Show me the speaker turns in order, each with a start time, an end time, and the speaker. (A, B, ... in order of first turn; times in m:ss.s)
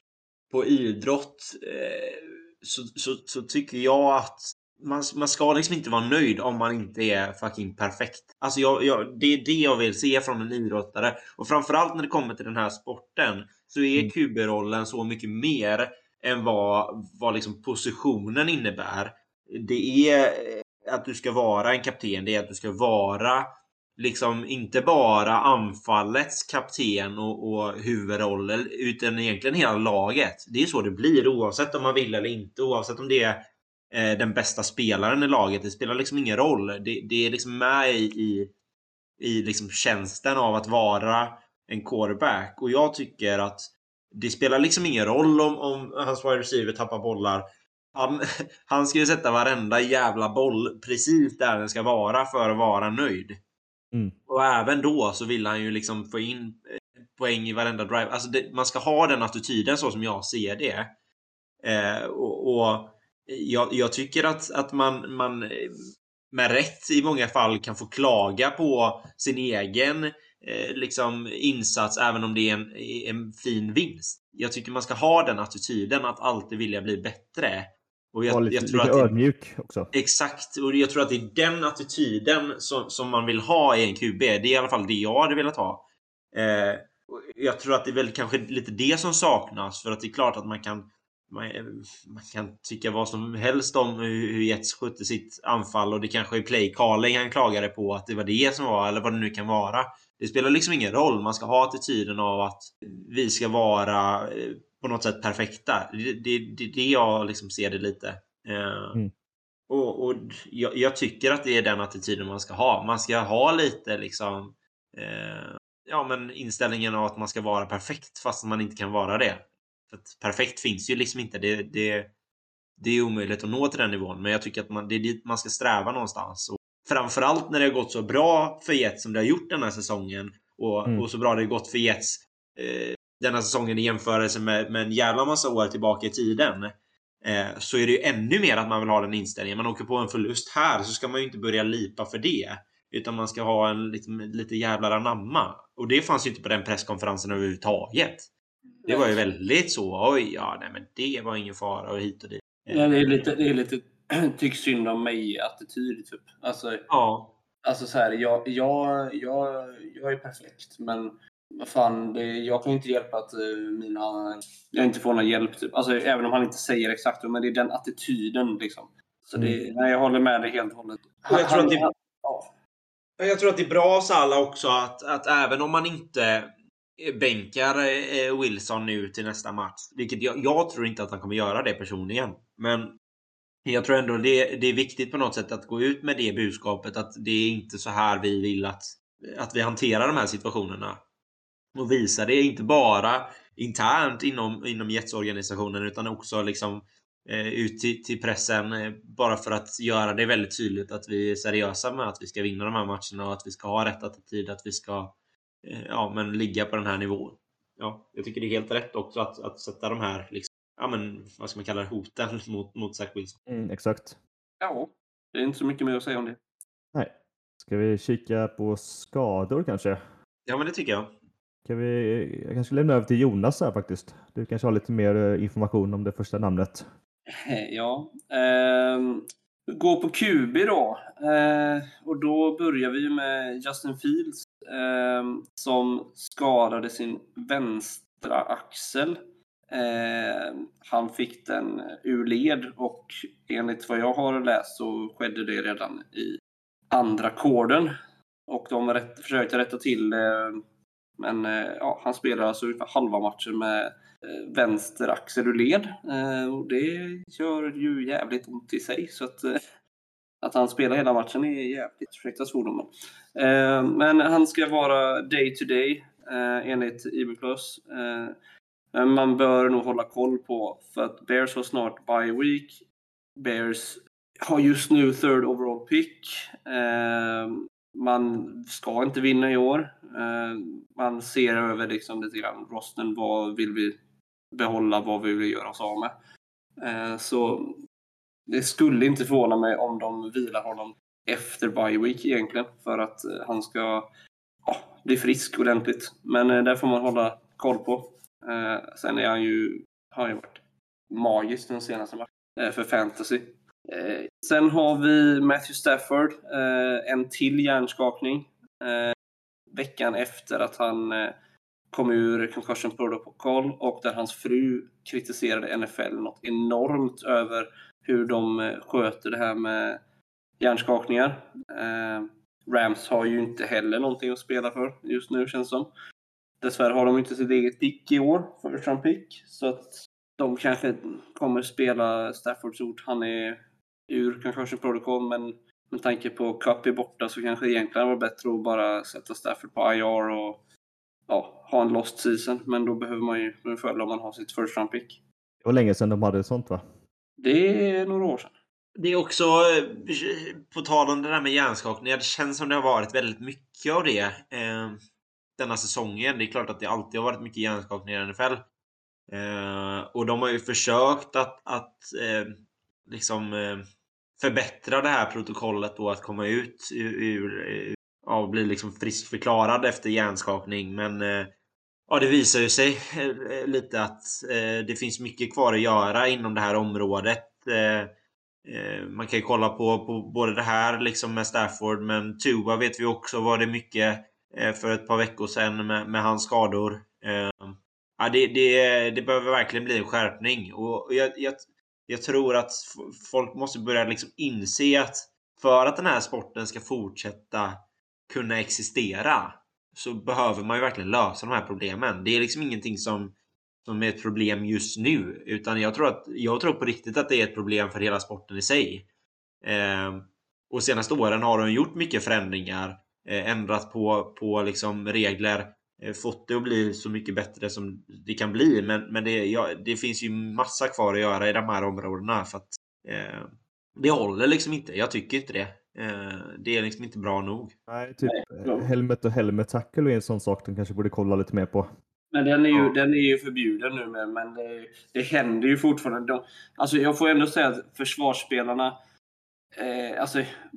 0:00.5-0:38.5 A
0:39.2-0:53.4 A
0:54.3-1:00.9 A
1:01.6-1:19.1 A
1:18.3-1:19.9 B
1:19.9-1:25.8 A
1:26.3-1:49.0 A
1:49.7-2:02.1 A
2:02.8-2:28.3 A
2:28.8-2:29.2 C
2:28.9-2:33.3 A
2:32.7-2:36.8 C
2:36.9-2:37.3 A
2:37.6-2:52.5 C
2:51.3-2:51.9 A
2:53.2-3:02.9 A
3:03.6-3:11.0 A
3:11.7-3:25.1 A
3:25.6-3:33.4 A
3:33.5-3:34.2 B
3:34.6-3:36.4 C
3:36.9-3:40.0 B
3:40.4-3:41.1 A
3:41.6-3:46.9 B
3:47.3-4:06.4 C
4:06.9-4:07.9 C
4:08.5-4:10.6 C
4:11.2-4:19.6 C
4:20.4-4:28.3 C
4:28.9-4:32.8 C
4:33.4-4:44.0 C
4:44.5-4:46.1 C
4:46.8-4:47.8 C
4:48.5-4:54.1 C
4:54.7-5:09.1 C
5:09.7-5:11.3 C
5:11.9-5:20.0 C
5:20.6-5:25.9 C
5:26.6-5:40.6 C
5:41.3-5:45.2 C
5:45.6-5:46.8 B
5:47.4-5:48.5 C
5:49.0-5:55.0 A
5:55.6-5:58.6 A
5:59.3-6:03.8 A
6:04.4-6:11.5 A
6:12.1-6:18.1 A
6:18.6-6:37.8 A
6:38.3-6:43.3 A
6:43.8-6:49.1 A
6:49.6-7:07.7 A
7:07.9-7:11.8 B
7:08.2-7:08.9 C
7:12.3-7:19.0 C
7:19.8-7:20.5 C